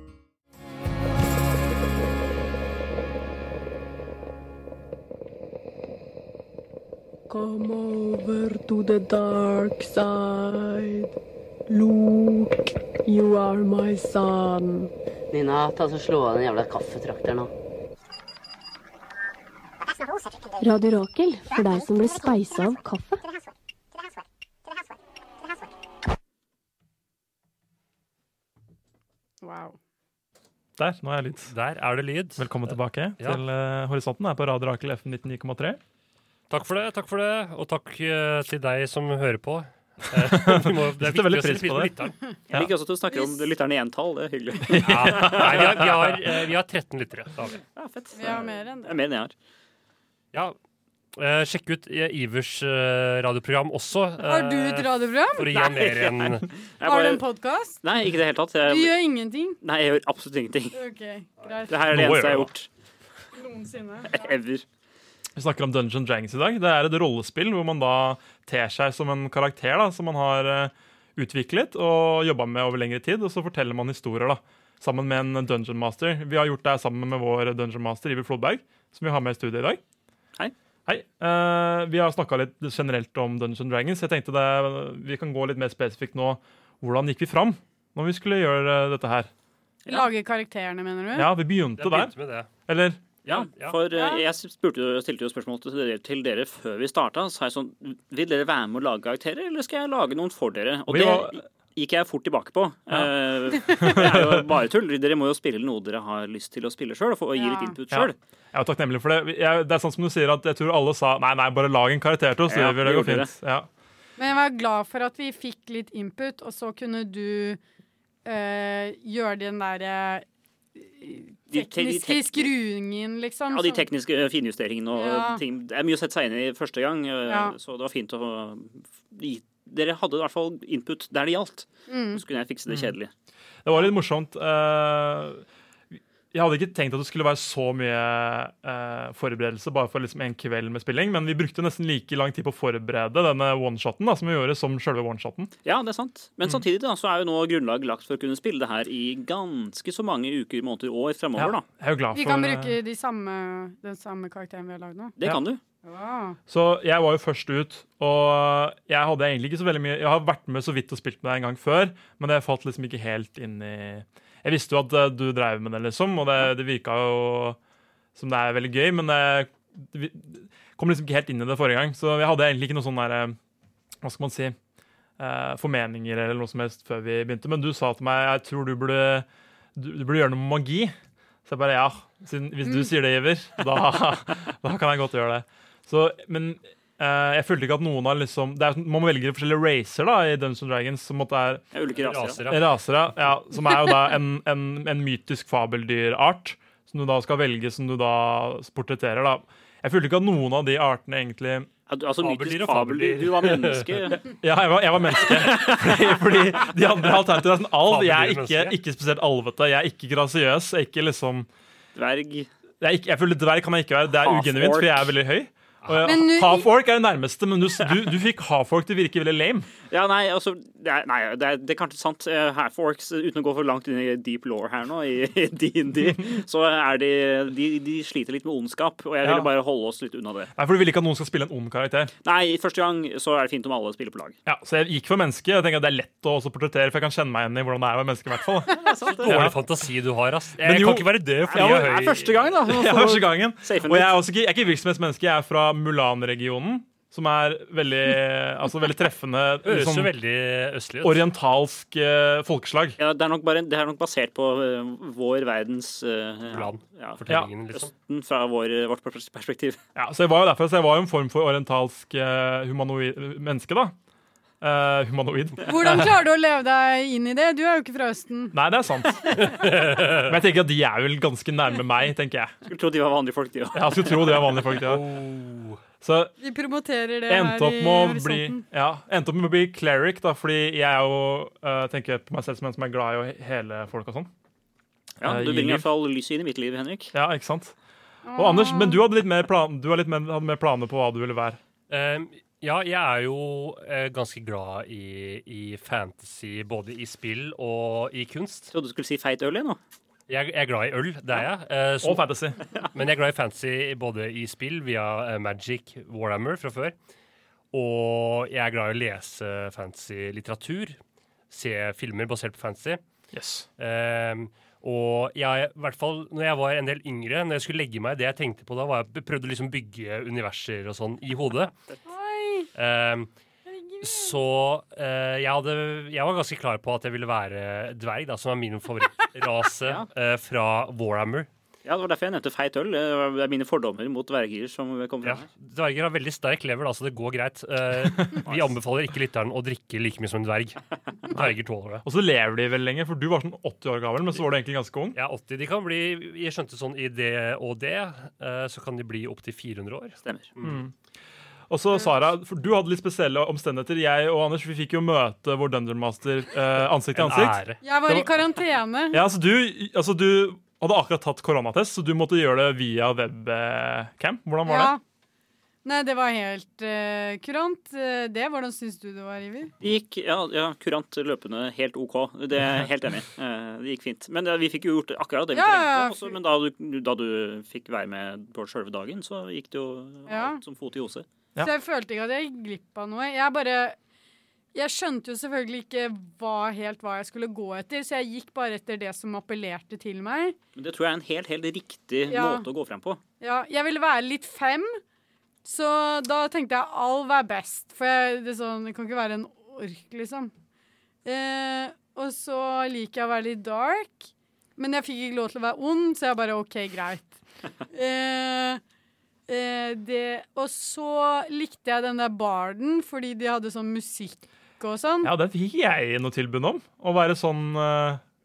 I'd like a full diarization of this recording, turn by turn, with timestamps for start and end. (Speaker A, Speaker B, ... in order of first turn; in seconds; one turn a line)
Speaker A: 7.3-11.1
Speaker A: 11.7-12.5
Speaker A: 13.1-14.9
Speaker B: 15.3-17.5
Speaker A: 20.6-23.2
Speaker C: 29.4-29.8
Speaker D: 30.8-31.5
Speaker E: 31.5-33.4
Speaker D: 32.4-35.8
Speaker E: 36.5-42.2
Speaker D: 40.2-42.0
Speaker F: 42.5-46.1
Speaker C: 43.1-43.4
Speaker D: 44.7-46.1
Speaker E: 44.8-47.6
Speaker F: 47.7-49.3
Speaker C: 48.1-49.0
Speaker E: 51.2-56.5
Speaker C: 54.2-55.6
Speaker F: 55.5-57.2
Speaker C: 56.8-57.8
Speaker F: 57.8-59.0
Speaker C: 58.6-59.6
Speaker F: 59.6-60.8
Speaker C: 60.7-61.9
Speaker F: 61.7-62.7
Speaker D: 61.9-62.5
Speaker C: 63.3-64.3
Speaker F: 64.1-64.6
Speaker D: 65.4-79.8
Speaker D: 80.9-89.3
Speaker C: 89.9-91.3
Speaker D: 91.1-92.1
Speaker E: 91.8-92.5
Speaker D: 92.7-93.0
Speaker F: 93.2-108.2
Speaker E: 93.3-93.8
Speaker C: 93.9-94.2
Speaker D: 100.9-101.4
Speaker D: 102.9-104.5
Speaker C: 107.3-107.8
Speaker D: 107.9-113.7
Speaker F: 112.5-113.3
Speaker C: 114.2-117.6
Speaker C: 118.2-123.9
Speaker F: 121.5-122.5
Speaker F: 123.5-133.1
Speaker C: 124.9-125.4
Speaker C: 127.3-127.5
Speaker C: 131.9-132.2
Speaker D: 133.6-145.5
Speaker F: 145.6-151.6
Speaker D: 151.4-152.8
Speaker C: 152.1-155.1
Speaker F: 155.2-155.6
Speaker C: 155.8-156.4
Speaker D: 156.5-167.6
Speaker D: 168.2-173.4
Speaker D: 174.0-174.6
Speaker D: 175.2-180.9
Speaker D: 181.4-191.6
Speaker F: 191.7-192.4
Speaker E: 191.9-192.6
Speaker D: 192.5-201.7
Speaker F: 201.9-204.2
Speaker E: 202.2-204.2
Speaker D: 204.3-211.5
Speaker F: 205.2-206.6
Speaker E: 207.9-208.8
Speaker F: 211.9-212.5
Speaker D: 212.8-219.7
Speaker F: 214.2-215.1
Speaker C: 216.0-216.7
Speaker F: 219.9-230.5
Speaker D: 229.2-229.5
Speaker D: 230.6-232.1
Speaker F: 232.2-234.4
Speaker D: 234.4-239.6
Speaker F: 238.7-239.5
Speaker E: 239.2-242.4
Speaker D: 240.6-242.1
Speaker F: 241.5-244.2
Speaker D: 242.6-250.1
Speaker E: 249.6-251.3
Speaker D: 251.0-253.0
Speaker F: 253.0-257.2
Speaker E: 256.5-257.9
Speaker F: 257.7-259.8
Speaker D: 259.9-263.9
Speaker D: 264.6-266.2
Speaker C: 265.6-268.6
Speaker D: 268.5-272.5
Speaker E: 269.4-270.3
Speaker F: 272.6-274.8
Speaker D: 273.7-275.1
Speaker E: 274.8-275.8
Speaker D: 276.0-276.3
Speaker C: 276.4-278.6
Speaker D: 277.3-284.3
Speaker D: 285.2-285.9
Speaker F: 285.2-287.1
Speaker D: 287.1-287.8
Speaker C: 288.2-289.0
Speaker D: 288.4-291.6
Speaker E: 291.9-298.7
Speaker F: 298.7-299.8
Speaker E: 300.3-302.3
Speaker D: 302.0-302.6
Speaker E: 302.9-306.9
Speaker E: 307.7-311.0
Speaker E: 311.5-313.0
Speaker D: 313.3-313.7
Speaker E: 313.8-321.7
Speaker C: 322.1-322.7
Speaker E: 322.8-323.3
Speaker C: 323.7-324.3
Speaker E: 324.0-331.5
Speaker F: 331.9-335.4
Speaker E: 335.2-342.0
Speaker F: 338.4-338.8
Speaker D: 342.0-345.2
Speaker E: 345.1-350.8
Speaker F: 350.2-350.5
Speaker D: 350.6-350.9
Speaker D: 351.7-358.3
Speaker E: 357.1-357.8
Speaker C: 357.8-359.2
Speaker D: 359.1-364.9
Speaker C: 364.6-365.0
Speaker C: 365.9-369.7
Speaker F: 369.8-381.3
Speaker C: 375.5-376.4
Speaker C: 380.3-380.6
Speaker C: 381.6-384.0
Speaker C: 384.7-390.6
Speaker F: 390.8-393.2
Speaker C: 392.3-392.7
Speaker C: 393.4-395.0
Speaker C: 395.6-400.5
Speaker C: 401.2-407.4
Speaker C: 407.9-408.8
Speaker C: 409.5-415.3
Speaker D: 415.2-418.2